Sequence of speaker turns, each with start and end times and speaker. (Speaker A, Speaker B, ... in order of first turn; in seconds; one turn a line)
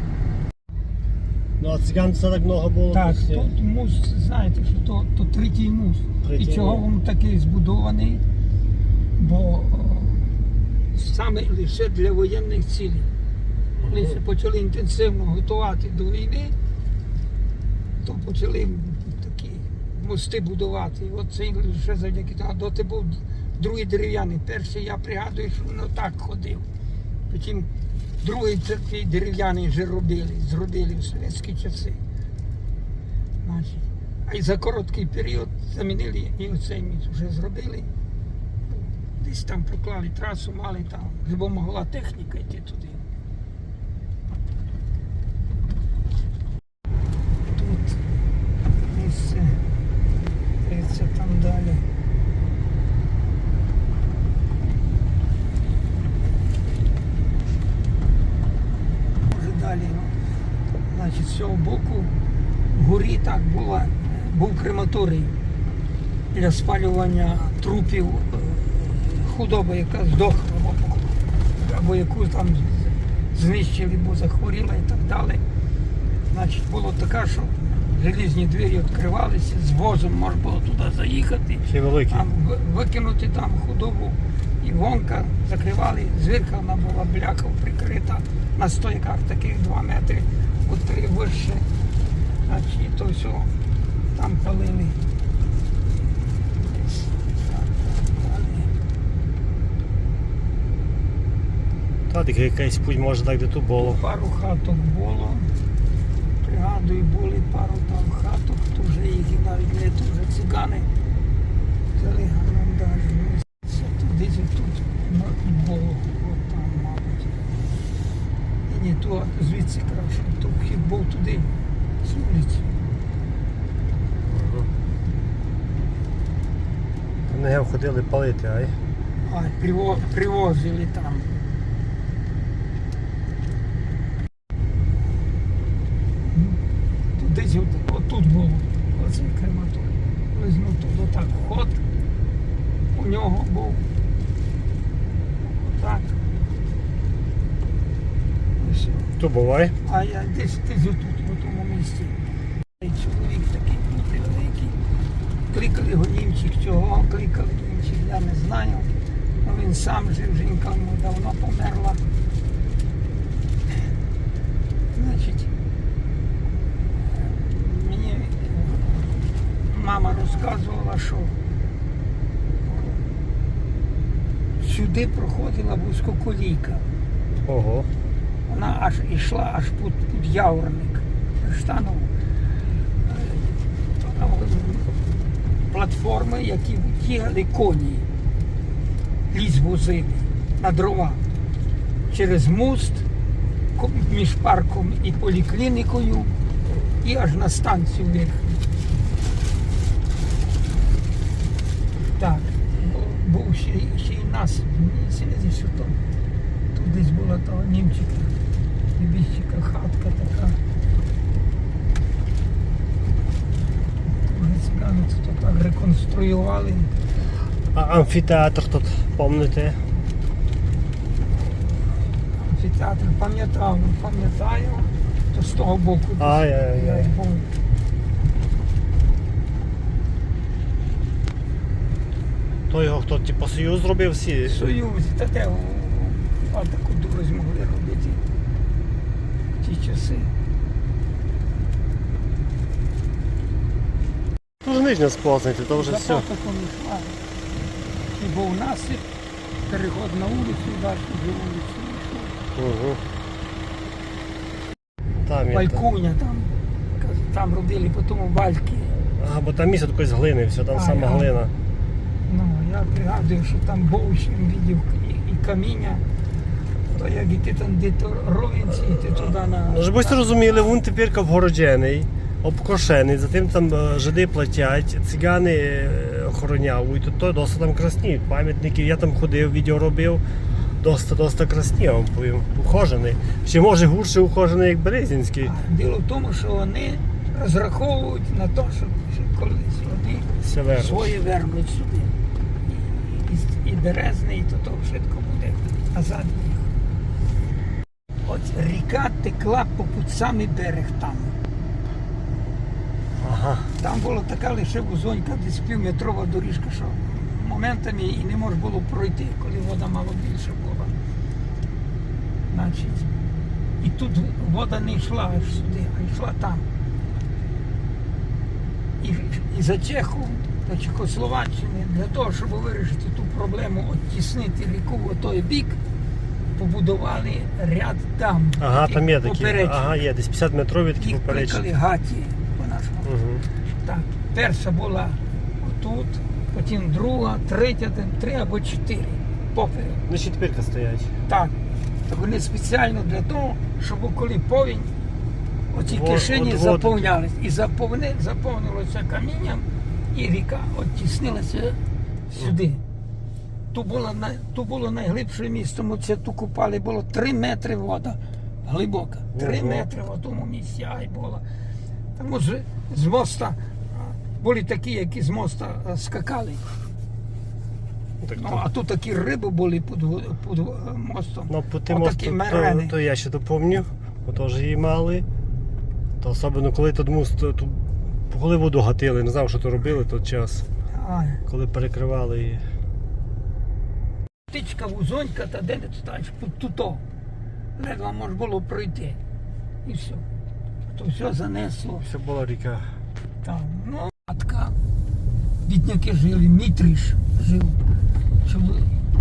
Speaker A: 1.6-3.5
Speaker B: 2.9-8.2
Speaker A: 6.2-6.8
Speaker B: 9.2-13.1
Speaker A: 13.8-14.2
Speaker B: 13.8-16.5
Speaker B: 18.0-26.6
Speaker B: 27.3-27.7
Speaker B: 28.2-32.0
Speaker B: 33.4-37.9
Speaker B: 39.1-43.0
Speaker B: 47.5-48.0
Speaker B: 48.8-49.6
Speaker B: 50.6-51.8
Speaker B: 59.2-60.1
Speaker B: 60.9-62.1
Speaker B: 62.7-65.3
Speaker B: 66.3-75.4
Speaker B: 76.3-91.6
Speaker A: 81.7-82.3
Speaker B: 92.5-93.5
Speaker B: 94.1-95.0
Speaker B: 96.6-98.7
Speaker A: 102.1-104.0
Speaker B: 103.8-105.5
Speaker B: 106.4-110.9
Speaker B: 111.9-117.3
Speaker B: 118.7-121.5
Speaker B: 122.0-122.7
Speaker A: 124.3-124.7
Speaker A: 127.3-128.8
Speaker B: 129.2-131.3
Speaker B: 136.3-136.6
Speaker B: 137.2-141.8
Speaker B: 142.9-143.9
Speaker B: 145.4-146.2
Speaker B: 148.6-149.1
Speaker A: 149.2-149.8
Speaker B: 149.8-152.1
Speaker B: 152.8-154.8
Speaker B: 155.5-158.9
Speaker B: 159.4-162.0
Speaker B: 164.9-165.5
Speaker B: 167.1-169.0
Speaker B: 169.7-171.3
Speaker B: 172.6-173.0
Speaker B: 174.6-176.8
Speaker A: 177.5-177.9
Speaker B: 178.5-182.1
Speaker B: 183.0-184.9
Speaker B: 185.7-188.1
Speaker B: 189.3-191.2
Speaker B: 192.1-193.1
Speaker B: 193.8-196.3
Speaker B: 197.0-198.6
Speaker B: 202.2-206.0
Speaker B: 206.7-208.3
Speaker B: 208.9-210.6
Speaker B: 214.1-216.9
Speaker A: 217.7-219.8
Speaker B: 222.3-227.5
Speaker A: 226.2-227.1
Speaker A: 232.7-234.6
Speaker B: 234.4-238.2
Speaker B: 239.6-240.3
Speaker A: 244.6-246.2
Speaker B: 245.7-247.2
Speaker B: 248.1-249.0
Speaker B: 249.7-252.4
Speaker A: 252.6-253.0
Speaker A: 255.2-255.8
Speaker B: 255.5-258.9
Speaker A: 259.0-261.5
Speaker B: 260.7-261.4
Speaker B: 262.2-266.0
Speaker B: 266.9-270.2
Speaker A: 268.8-280.2
Speaker A: 280.8-285.5
Speaker B: 285.4-296.7
Speaker A: 290.4-291.1
Speaker B: 298.2-301.3
Speaker A: 303.2-303.7
Speaker B: 303.8-310.9
Speaker B: 312.5-313.1
Speaker B: 313.8-316.6
Speaker B: 319.0-325.8
Speaker B: 326.5-330.0
Speaker A: 328.6-331.6
Speaker B: 331.0-333.1
Speaker A: 333.0-333.4
Speaker B: 333.8-340.0
Speaker A: 340.1-341.1
Speaker B: 341.3-341.6
Speaker B: 342.1-344.9
Speaker B: 345.7-351.8
Speaker A: 345.8-347.1
Speaker B: 352.3-352.8
Speaker B: 353.7-361.4
Speaker A: 359.3-359.9
Speaker B: 362.1-366.6
Speaker A: 368.2-368.6
Speaker B: 368.4-372.9
Speaker A: 371.5-375.2
Speaker A: 376.2-380.6
Speaker B: 380.9-381.4
Speaker A: 381.4-382.6
Speaker B: 384.5-387.0
Speaker B: 387.8-389.2
Speaker B: 389.8-390.2
Speaker B: 390.9-392.1
Speaker A: 392.0-392.9
Speaker B: 393.4-394.8
Speaker B: 395.6-397.8
Speaker B: 398.4-398.9